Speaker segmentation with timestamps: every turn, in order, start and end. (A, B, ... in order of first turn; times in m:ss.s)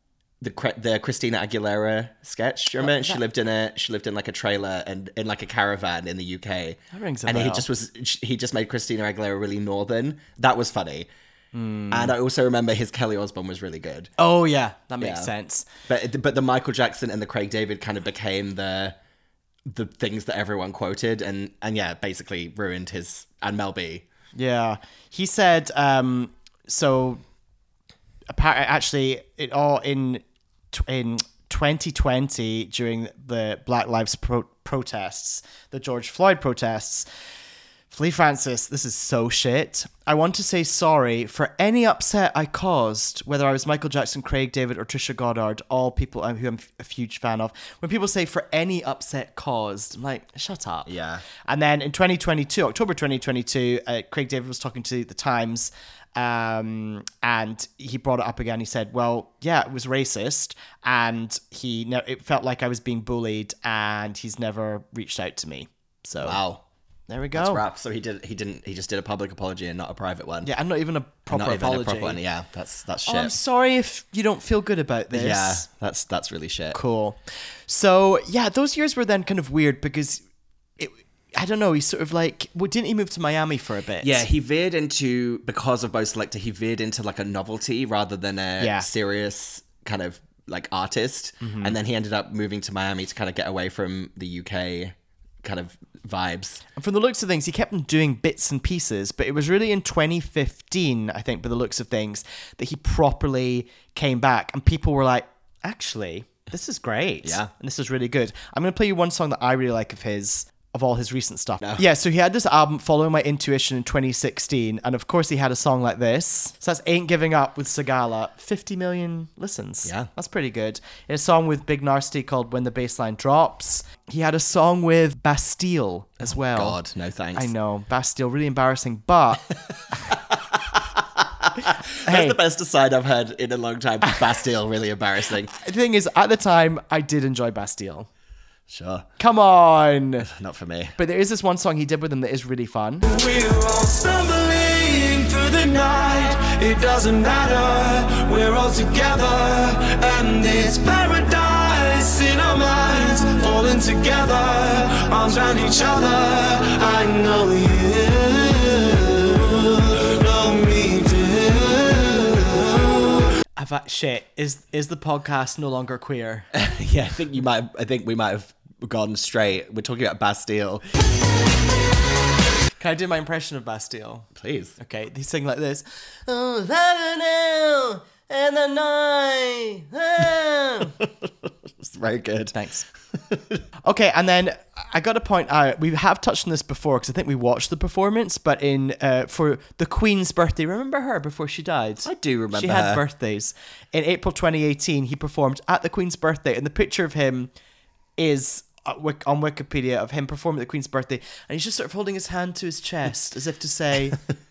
0:00.4-0:11.1 A
0:02.8-0:03.2 B
0:06.9-0:07.7 B
0:11.5-0:12.1 B
0:11.9-0:14.1 A
0:14.2-0:15.6 B
0:15.0-0:15.3 A
0:15.9-0:19.0 A
0:19.6-0:24.0 A
0:24.4-0:27.2 B
0:28.3-0:37.1 B
0:37.9-0:50.9 B
0:50.9-0:51.2 A
0:51.5-1:06.4 B
1:06.2-1:06.6 A
1:07.1-1:07.6 B
1:07.3-1:10.5 A
1:10.4-1:12.2 B
1:11.3-1:13.3 A
1:13.0-1:15.6 B
1:15.1-1:16.8 A
1:16.7-1:20.2 B
1:20.8-1:24.2 B
1:24.0-1:36.6 A
1:28.6-1:28.9 B
1:31.4-1:31.8 B
1:36.8-2:06.8 B
1:47.2-1:47.5 A
2:06.3-2:07.5 A
2:07.4-2:09.4 B
2:10.1-2:15.5 A
2:12.0-2:12.4 B
2:15.6-2:18.1 B
2:18.7-2:19.1 A
2:19.2-2:20.3 B
2:20.2-2:21.0 A
2:21.0-2:23.0 B
2:23.0-2:43.3 C
2:43.6-2:46.5 B
2:46.5-2:50.8 A
2:52.8-3:00.9 B
2:54.4-2:54.7 A
3:01.8-3:02.6 A
3:02.5-3:02.9 B
3:03.3-3:03.6 A
3:03.8-3:17.5 B
3:12.0-3:13.0 A
3:18.2-3:24.2 B